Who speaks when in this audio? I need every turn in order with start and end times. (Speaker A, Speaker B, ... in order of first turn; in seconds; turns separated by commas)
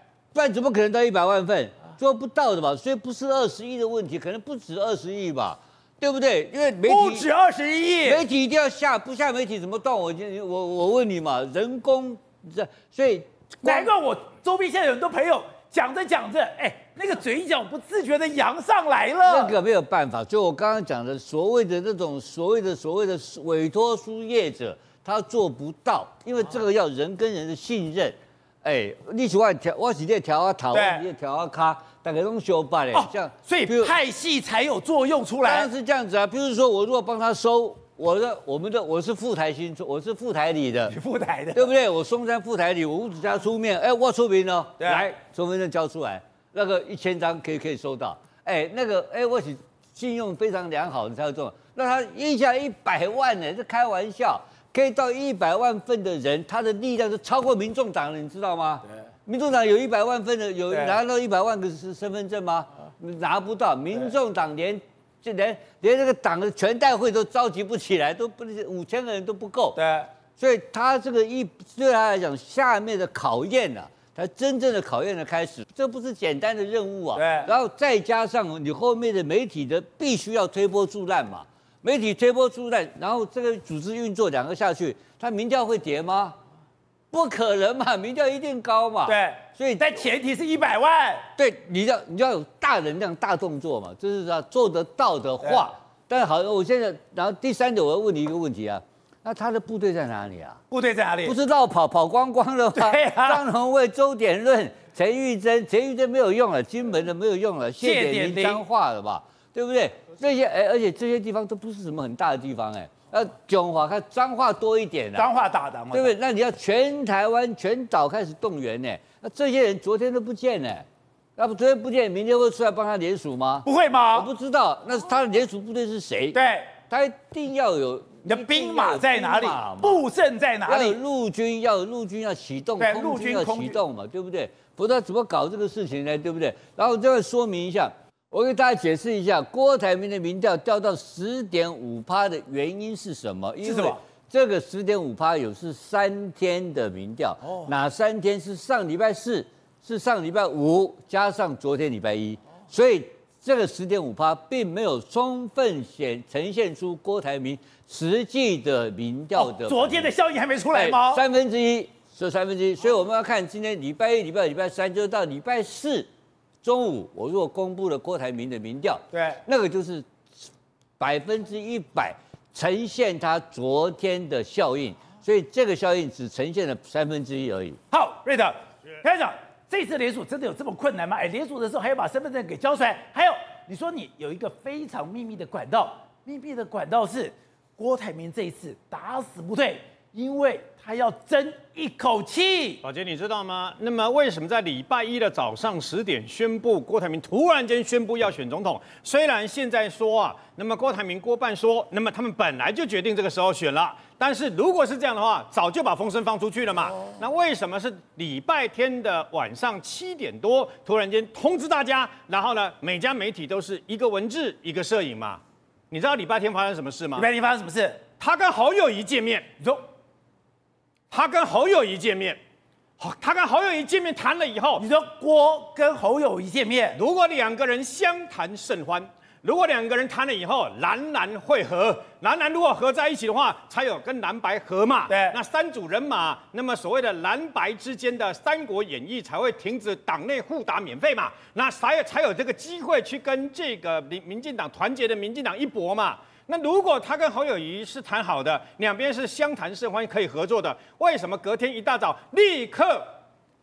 Speaker A: 0.3-7.3, Speaker B: 6.8-8.2, Speaker A: 8.0-13.9, Speaker B: 13.6-19.5, Speaker A: 19.2-33.9, Speaker B: 30.7-31.0, Speaker B: 32.9-35.7, Speaker A: 35.4-40.9, Speaker B: 40.9-41.7, Speaker A: 41.5-69.8, Speaker B: 44.8-45.1, Speaker B: 60.7-61.0, Speaker B: 69.7-70.1, Speaker A: 70.4-86.4, Speaker B: 77.1-77.5, Speaker A: 87.1-89.9, Speaker B: 89.0-91.3, Speaker A: 91.3-100.6, Speaker B: 100.7-101.4, Speaker A: 101.2-115.2, Speaker B: 102.7-103.4, Speaker B: 107.8-108.6, Speaker B: 115.2-116.1, Speaker A: 115.9-120.8, Speaker A: 121.4-130.0, Speaker B: 123.6-124.3, Speaker B: 126.3-126.7, Speaker B: 128.2-131.0, Speaker A: 130.7-160.1, Speaker B: 132.8-133.8, Speaker B: 143.6-144.0, Speaker B: 147.4-147.7, Speaker B: 159.3-161.2, Speaker A: 160.7-166.1, Speaker A: 166.6-170.4, Speaker B: 169.1-169.4, Speaker A: 171.0-177.8, Speaker B: 177.9-192.8, Speaker C: 192.8-217.3, Speaker B: 217.1-218.0, Speaker C: 218.2-219.5, Speaker B: 219.6-219.9, Speaker C: 221.1-222.4, Speaker C: 223.0-224.8, Speaker B: 224.8-227.0, Speaker C: 226.9-253.1, Speaker B: 235.1-235.3